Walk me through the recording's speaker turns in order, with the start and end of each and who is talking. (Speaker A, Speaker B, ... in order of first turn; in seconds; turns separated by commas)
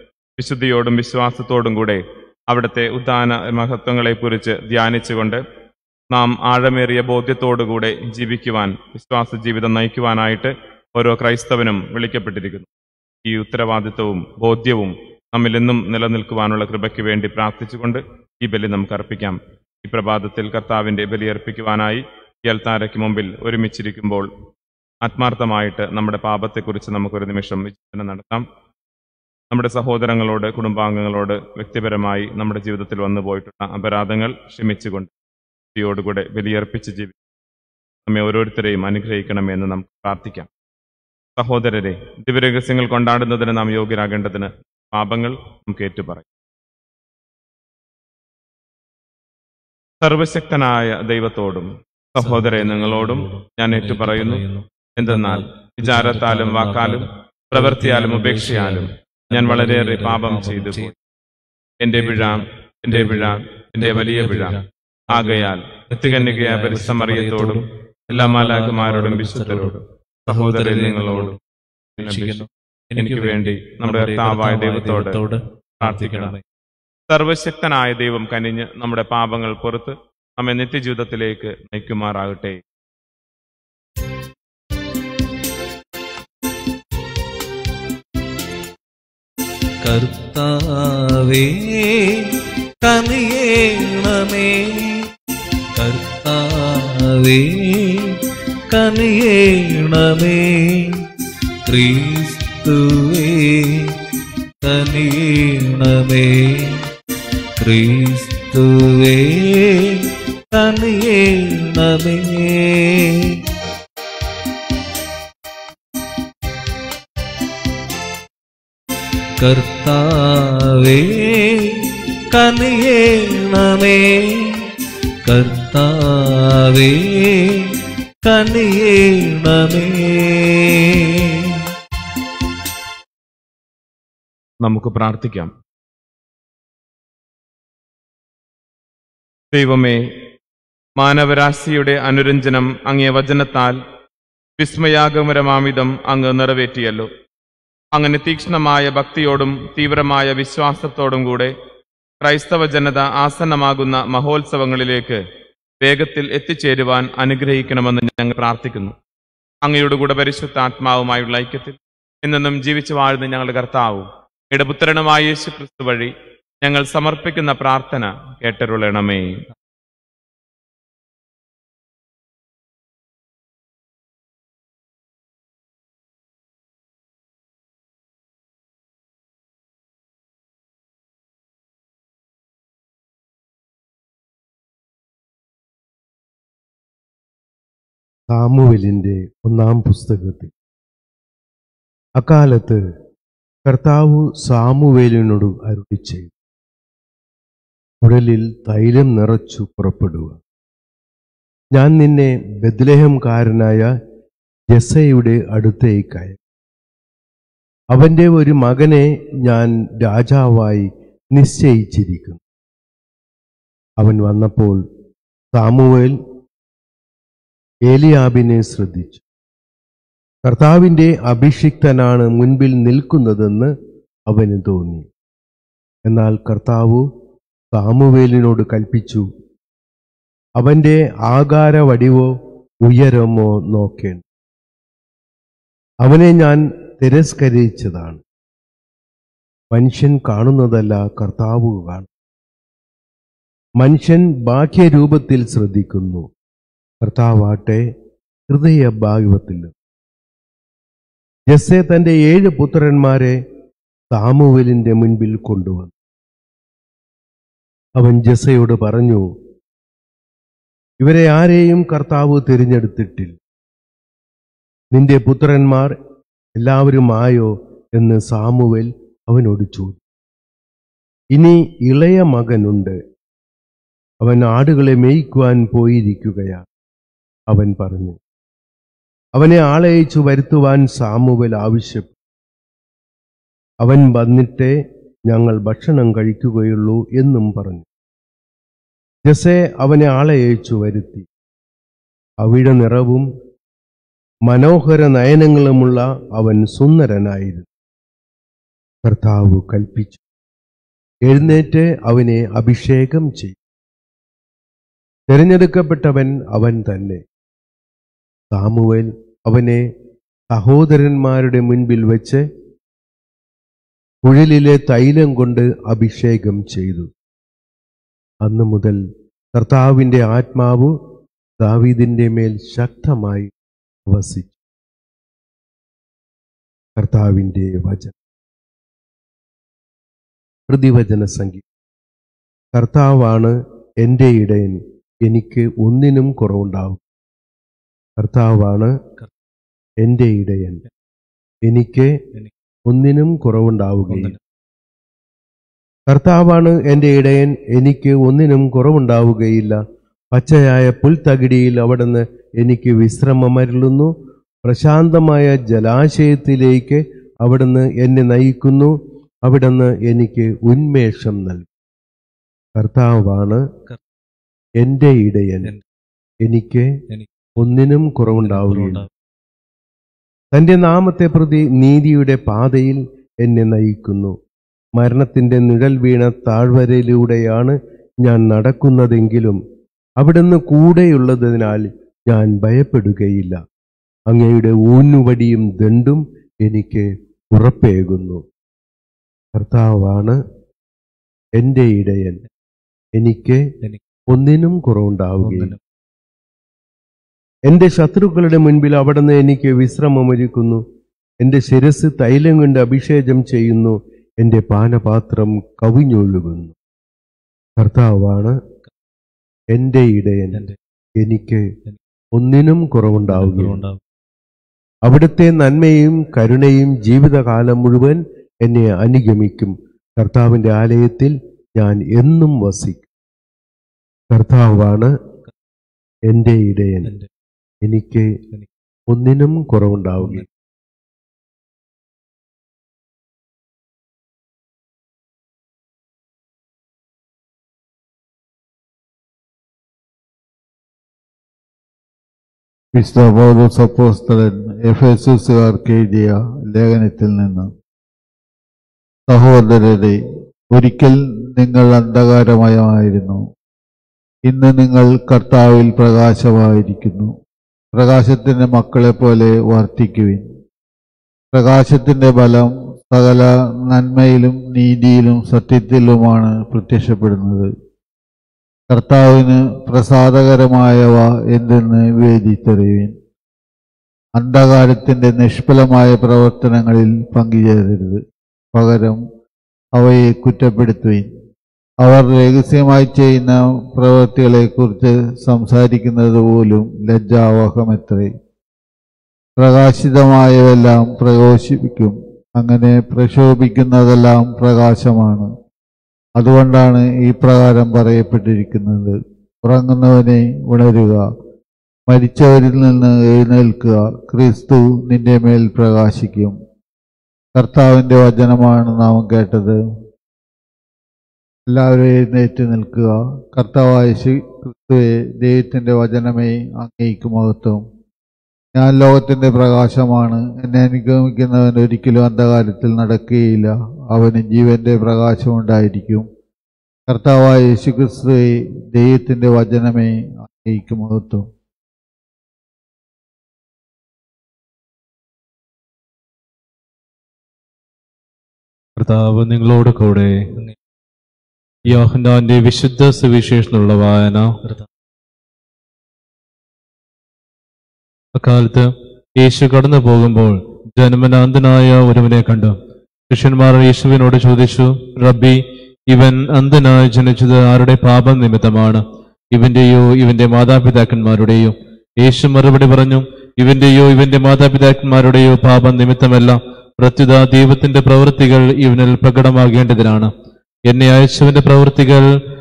Speaker A: 0.4-5.4, Speaker A: 6.1-12.7, Speaker A: 13.2-24.3, Speaker A: 25.0-28.4, Speaker A: 29.5-35.1, Speaker A: 35.7-37.1, Speaker A: 38.0-40.5, Speaker A: 41.4-46.2, Speaker A: 50.0-54.4, Speaker B: 52.2-60.9, Speaker A: 55.0-60.9, Speaker A: 61.8-64.5, Speaker B: 61.9-71.4, Speaker A: 65.1-69.7, Speaker A: 70.3-71.4, Speaker A: 72.0-72.5, Speaker B: 72.0-76.4, Speaker A: 73.0-75.2, Speaker A: 75.8-76.3, Speaker A: 77.1-82.6, Speaker B: 89.8-92.3, Speaker B: 92.8-95.1, Speaker B: 95.7-98.1, Speaker B: 98.7-101.0, Speaker B: 101.6-103.9, Speaker B: 104.6-106.8, Speaker B: 107.6-113.3, Speaker B: 119.4-124.5, Speaker B: 125.2-127.6, Speaker B: 128.2-131.1, Speaker A: 134.6-135.5, Speaker A: 139.5-140.0, Speaker A: 141.0-143.8, Speaker A: 144.6-147.1, Speaker A: 147.9-151.5, Speaker A: 152.2-155.2, Speaker A: 155.8-158.9, Speaker A: 159.6-169.4, Speaker C: 188.3-190.5, Speaker C: 192.2-192.8, Speaker C: 193.7-196.3, Speaker C: 198.0-200.4, Speaker C: 201.7-203.9, Speaker C: 204.7-206.4, Speaker C: 207.9-212.4, Speaker C: 214.0-214.8, Speaker C: 215.5-216.1, Speaker C: 217.9-219.2, Speaker C: 220.5-223.7, Speaker C: 224.3-225.1, Speaker C: 226.1-227.0, Speaker C: 227.7-229.2, Speaker C: 230.6-232.3, Speaker C: 232.8-234.2, Speaker C: 236.0-238.2, Speaker C: 239.7-242.1, Speaker C: 243.8-246.3, Speaker C: 247.0-247.8, Speaker C: 248.5-249.7, Speaker C: 251.5-253.3, Speaker C: 254.1-255.9, Speaker C: 258.0-259.2, Speaker C: 261.0-263.4, Speaker C: 264.9-265.9, Speaker C: 266.6-270.0, Speaker C: 271.3-273.0, Speaker C: 274.2-276.6, Speaker C: 277.5-278.2, Speaker C: 279.4-282.1, Speaker C: 283.8-284.7, Speaker C: 285.3-287.9, Speaker C: 289.2-291.3, Speaker C: 292.4-293.2, Speaker C: 294.4-297.7, Speaker C: 299.0-300.2, Speaker C: 301.2-303.6, Speaker C: 305.3-307.2, Speaker C: 308.5-309.8, Speaker C: 310.5-312.4, Speaker C: 314.2-317.1, Speaker C: 318.4-319.0, Speaker C: 319.5-320.9, Speaker C: 321.6-323.5, Speaker C: 324.1-324.5, Speaker C: 327.0-328.1, Speaker C: 330.7-331.6, Speaker C: 332.7-337.0, Speaker C: 338.2-338.9, Speaker C: 340.0-340.8, Speaker C: 341.7-342.1, Speaker C: 342.9-344.3, Speaker B: 344.1-344.4, Speaker C: 346.1-349.8, Speaker C: 350.3-354.1, Speaker C: 354.6-361.7, Speaker C: 362.8-363.6, Speaker C: 364.8-365.7, Speaker C: 366.4-366.9, Speaker C: 367.6-369.0, Speaker B: 368.3-369.1, Speaker C: 370.5-374.4, Speaker C: 374.9-379.6, Speaker C: 380.2-383.6, Speaker C: 384.3-388.4, Speaker C: 389.6-390.4, Speaker C: 391.6-392.4, Speaker C: 393.2-393.6, Speaker C: 394.3-395.7, Speaker B: 395.4-395.8, Speaker C: 397.7-400.8, Speaker C: 401.4-406.7, Speaker C: 407.8-408.6, Speaker C: 409.7-410.6, Speaker C: 411.2-411.6, Speaker C: 412.4-413.8, Speaker B: 413.3-414.0, Speaker C: 415.1-423.0, Speaker C: 424.3-425.1, Speaker C: 426.3-427.1, Speaker B: 427.0-427.3, Speaker C: 427.8-428.3, Speaker C: 429.1-430.4, Speaker B: 430.2-430.5, Speaker D: 443.0-447.7, Speaker D: 449.3-450.2, Speaker D: 450.7-453.4, Speaker D: 454.5-457.3, Speaker D: 458.0-460.4, Speaker D: 461.5-467.7, Speaker D: 468.9-473.1, Speaker D: 474.4-478.2, Speaker D: 478.7-479.2, Speaker D: 480.0-481.2, Speaker D: 482.0-488.3, Speaker D: 489.6-495.5, Speaker D: 496.4-499.1, Speaker D: 499.6-501.2, Speaker D: 502.1-506.5, Speaker D: 507.6-509.8, Speaker D: 511.7-517.8, Speaker D: 518.8-526.2, Speaker D: 527.1-531.4, Speaker E: 539.0-540.4, Speaker E: 541.9-544.5, Speaker B: 544.6-544.9, Speaker E: 548.4-552.8, Speaker E: 553.3-570.3, Speaker E: 570.9-572.3